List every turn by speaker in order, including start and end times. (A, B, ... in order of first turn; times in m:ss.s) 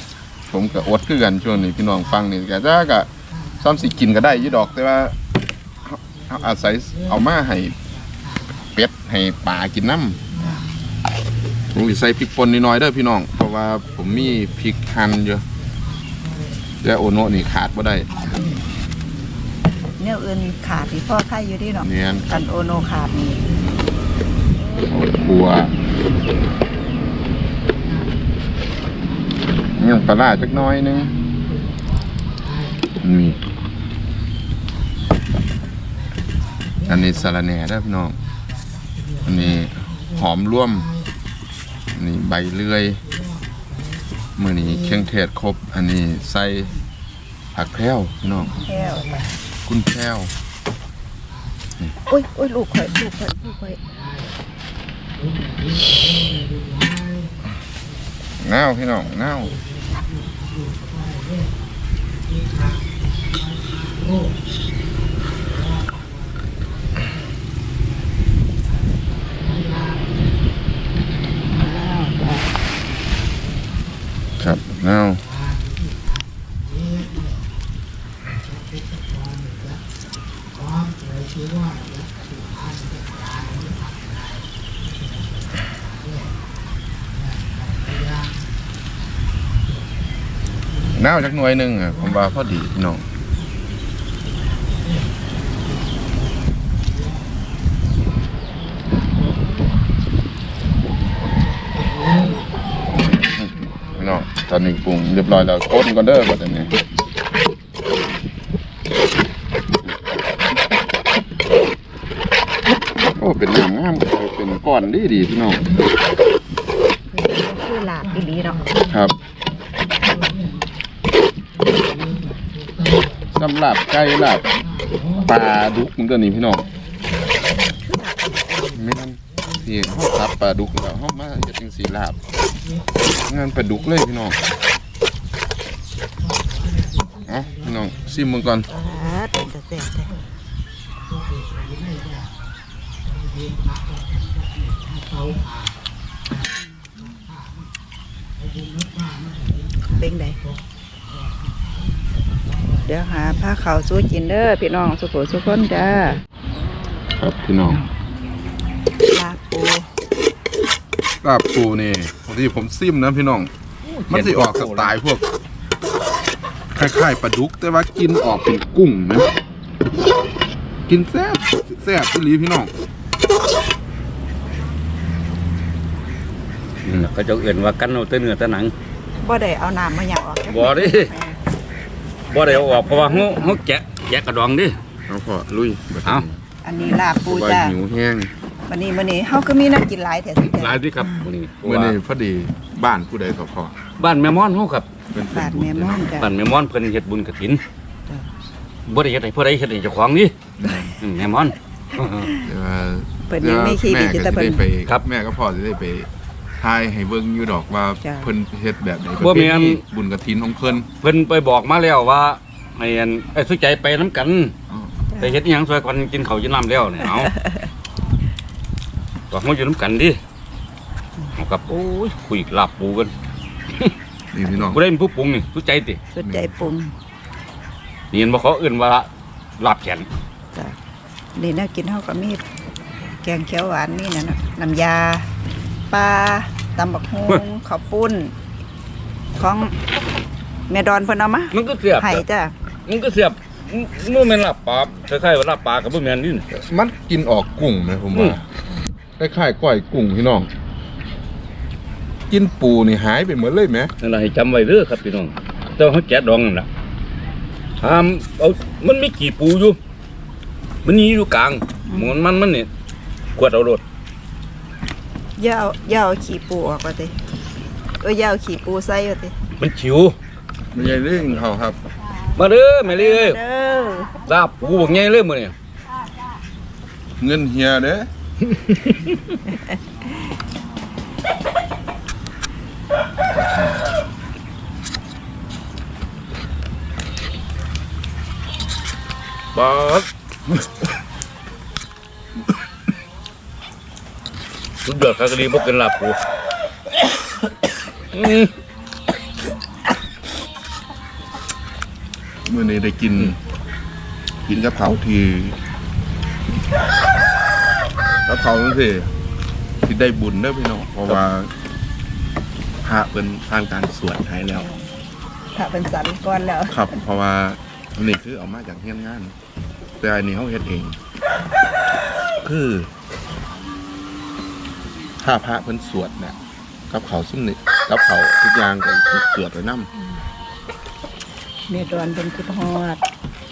0:00.5-0:05.2 A
0:05.8-0:07.8 A
0:08.7-0:10.2 A
0:11.7-0:15.4 A
0:16.8-0:18.3 A
0:20.0-0:23.5 B
0:21.8-0:22.4 A
0:24.7-0:25.1 B
0:24.9-0:25.7 A
0:29.8-0:31.2 A
0:33.0-0:33.4 A
0:36.8-0:38.2 A
0:39.2-0:40.9 A
0:41.9-0:43.0 A
0:44.4-0:46.7 A
0:47.6-0:48.5 A
0:48.6-0:49.2 B
0:49.7-0:50.3 A
0:52.1-0:53.8 B
0:58.4-0:59.6 A
1:11.5-1:12.5 B
1:14.4-1:15.3 A
1:30.9-1:33.0 A
1:43.0-1:46.8 A
1:53.2-1:55.7 A
1:57.1-1:58.7 B
1:58.9-1:59.2 A
2:03.4-2:06.7 A
2:07.8-2:08.8 B
2:08.8-2:12.2 A
2:13.3-2:14.4 A
2:17.2-2:18.7 A
2:18.7-2:20.2 B
2:29.9-2:30.4 B
2:32.8-2:36.2 B
2:37.2-2:37.8 A
2:39.1-2:39.9 B
2:41.2-2:43.5 A
2:43.8-2:44.9 C
2:44.1-2:45.2 A
2:46.8-2:49.3 A
2:50.9-2:52.7 A
2:56.8-2:58.7 C
2:59.2-3:01.4 B
3:00.5-3:01.1 C
3:02.3-3:04.8 C
3:02.4-3:03.6 B
3:05.1-3:06.4 A
3:06.6-3:07.8 B
3:07.2-3:08.3 A
3:08.7-3:11.3 B
3:10.5-3:12.0 C
3:11.6-3:13.8 A
3:14.0-3:14.9 C
3:15.1-3:16.1 A
3:15.3-3:16.3 B
3:16.2-3:17.6 C
3:18.9-3:20.3 C
3:20.6-3:21.0 A
3:21.0-3:22.3 C
3:22.4-3:26.1 A
3:23.3-3:24.7 B
3:26.6-3:30.9 A
3:28.0-3:28.3 B
3:29.2-3:29.8 C
3:31.0-3:34.5 C
3:34.7-3:35.0 A
3:35.1-3:35.4 B
3:35.2-3:37.4 C
3:37.0-3:37.7 B
3:39.3-3:40.2 C
3:41.4-3:43.1 C
3:44.3-3:44.8 A
3:44.6-3:46.0 C
3:46.2-3:46.9 B
3:46.2-3:46.6 A
3:48.1-3:49.1 C
3:49.6-3:50.1 C
3:51.4-3:52.4 B
3:53.2-3:55.3 B
3:55.9-3:58.3 B
3:59.4-3:59.7 B
4:00.7-4:02.5 B
4:01.5-4:02.2 C
4:02.9-4:06.5 C
4:06.5-4:08.5 A
4:09.2-4:10.5 A
4:12.3-4:13.9 A
4:14.0-4:16.7 C
4:17.8-4:19.8 C
4:20.8-4:22.7 C
4:21.9-4:22.2 B
4:23.4-4:23.8 C
4:25.4-4:27.2 B
4:28.0-4:29.3 B
4:29.6-4:30.2 C
4:30.7-4:31.8 A
4:32.4-4:33.4 C
4:32.8-4:34.1 B
4:34.3-4:35.5 C
4:37.2-4:38.1 A
4:38.5-4:39.4 C
4:39.5-4:39.8 B
4:43.3-4:43.8 A
4:49.6-4:50.1 C
4:54.8-4:56.2 C
4:58.1-4:58.5 C
5:02.5-5:03.4 A
5:04.5-5:05.6 A
5:08.3-5:09.1 A
5:09.8-5:11.5 A
5:12.8-5:14.7 A
5:15.6-5:17.0 B
5:16.7-5:19.4 A
5:20.0-5:21.0 A
5:22.4-5:22.9 A
5:25.2-5:26.4 A
5:26.9-5:29.9 A
5:31.7-5:33.0 B